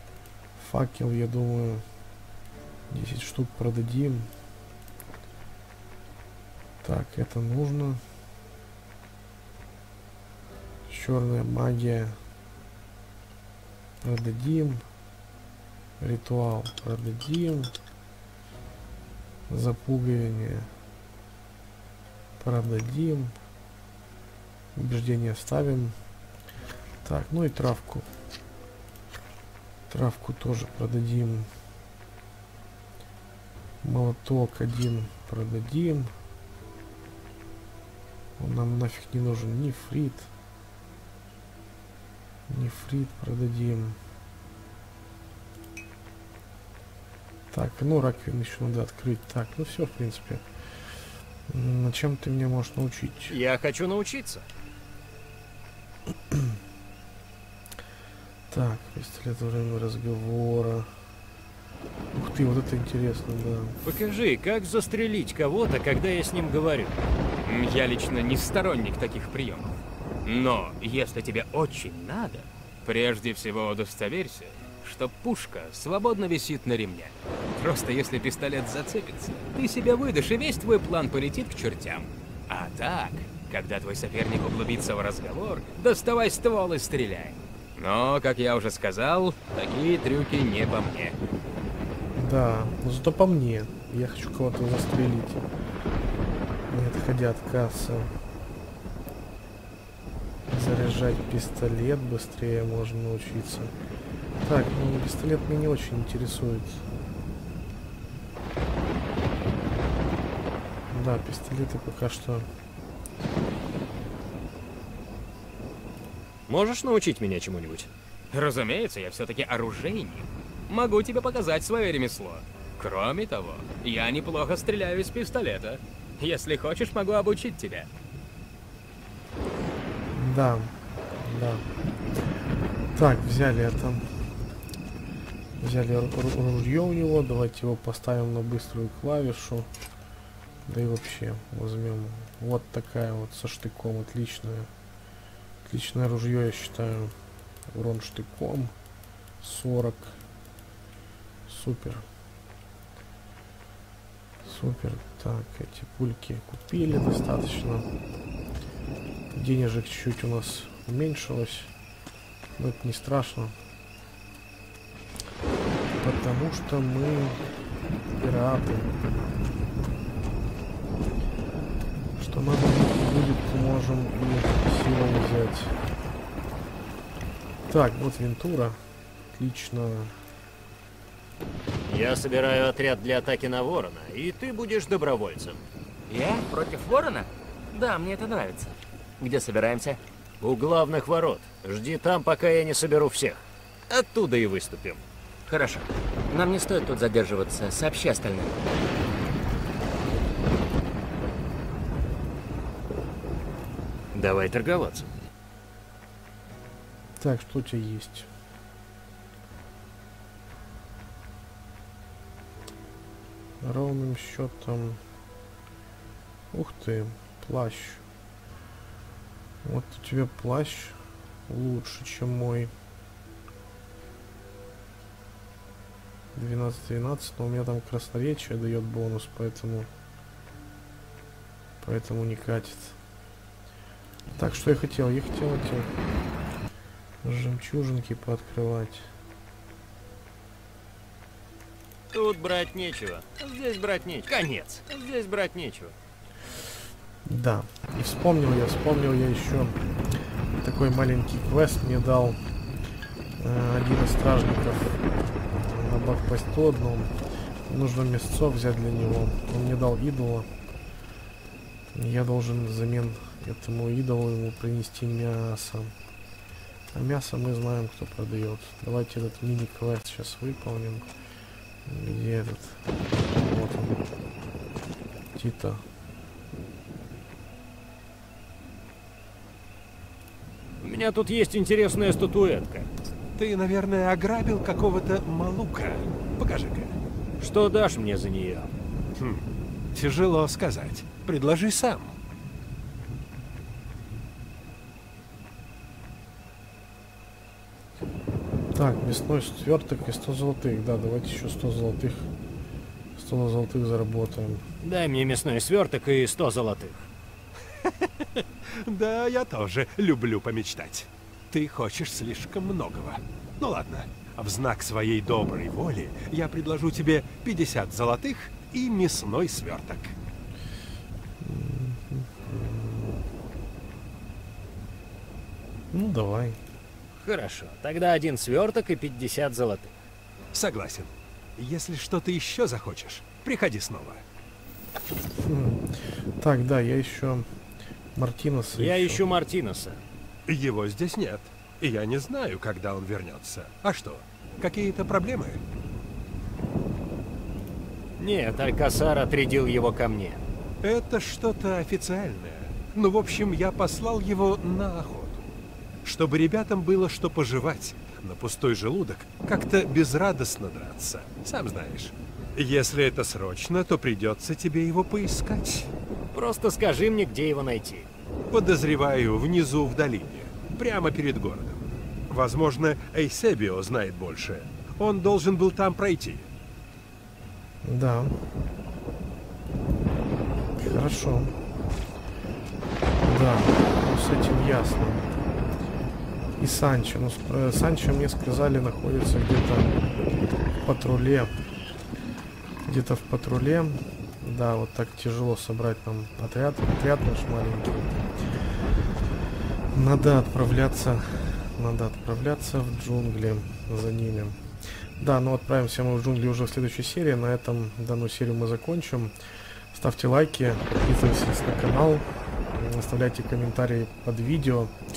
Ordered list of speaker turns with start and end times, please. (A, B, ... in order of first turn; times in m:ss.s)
0:00.6-0:01.8 A
0:02.9-0:04.3 A
0:06.8-0:08.0 A
0:10.9-0:12.1 A
0:14.0-0:14.8 A
0:16.0-0:17.7 A
0:19.5-0:20.7 A
0:22.4-0:23.3 A
0:24.7-0:25.9 A
0:27.0-0:28.0 A
0:29.9-0:31.5 A
0:33.8-0:36.1 A
0:38.4-0:40.3 A
0:42.5-0:44.0 A
0:47.5-0:50.4 A
0:51.5-0:53.4 A
0:53.3-0:54.4 B
0:58.5-1:00.9 A
1:02.1-1:03.8 A
1:03.8-1:07.0 B
1:07.4-1:31.2 C
1:32.2-1:35.4 A
1:36.7-1:38.1 A
1:40.5-1:43.7 A
1:44.4-1:46.8 A
1:50.9-1:52.4 A
1:56.5-1:57.9 B
1:58.3-2:07.9 C
2:10.1-2:11.6 A
2:12.9-2:14.0 A
2:15.6-2:19.7 A
2:20.7-2:24.7 A
2:25.6-2:27.1 A
2:27.7-2:28.7 A
2:29.4-2:30.1 A
2:31.5-2:32.0 A
2:34.4-2:37.8 A
2:39.3-2:41.7 A
2:42.6-2:43.5 A
2:46.0-2:47.4 A
2:48.1-2:48.9 A
2:52.2-2:55.7 A
2:57.7-2:58.8 A
2:59.3-3:00.1 A
3:01.9-3:05.6 B
3:06.1-3:10.0 D
3:10.4-3:15.0 B
3:15.5-3:18.6 D
3:24.1-3:25.1 B
3:27.2-3:28.3 A
3:33.6-3:35.0 A
3:36.5-3:38.0 A
3:39.6-3:40.9 A
3:41.5-3:42.7 A
3:46.3-3:49.9 A
3:51.8-3:53.0 A
3:54.4-3:55.9 A
3:57.2-3:59.1 A
4:02.1-4:05.9 B
4:07.2-4:09.8 A
4:10.6-4:12.4 A
4:13.4-4:17.1 A
4:17.7-4:20.5 A
4:21.9-4:25.9 A
4:26.9-4:31.0 A
4:31.8-4:34.0 A
4:35.3-4:35.8 A
4:40.8-4:42.9 B
4:43.4-4:47.0 E
4:47.4-4:48.7 B
4:49.2-4:52.2 E
4:58.7-5:02.3 A
5:03.2-5:04.6 A
5:04.8-5:07.1 B
5:08.7-5:20.2 E
5:21.4-5:23.2 A
5:25.9-5:26.6 A
5:27.2-5:30.0 B
5:30.5-5:34.2 E
5:35.4-5:37.4 A
5:38.2-5:39.2 A
5:38.8-5:40.0 B
5:40.5-5:45.6 E
5:48.2-5:50.4 B
5:50.8-5:55.5 E
5:56.0-6:05.9 E
6:06.3-6:08.1 B
6:08.5-6:16.5 E
6:17.8-6:18.3 A
6:20.8-6:21.5 A
6:23.2-6:25.4 A
6:26.6-6:30.0 A
6:30.8-6:31.5 A
6:32.8-6:38.2 A
6:39.9-6:44.6 A
6:45.2-6:49.3 A
6:49.9-6:54.9 A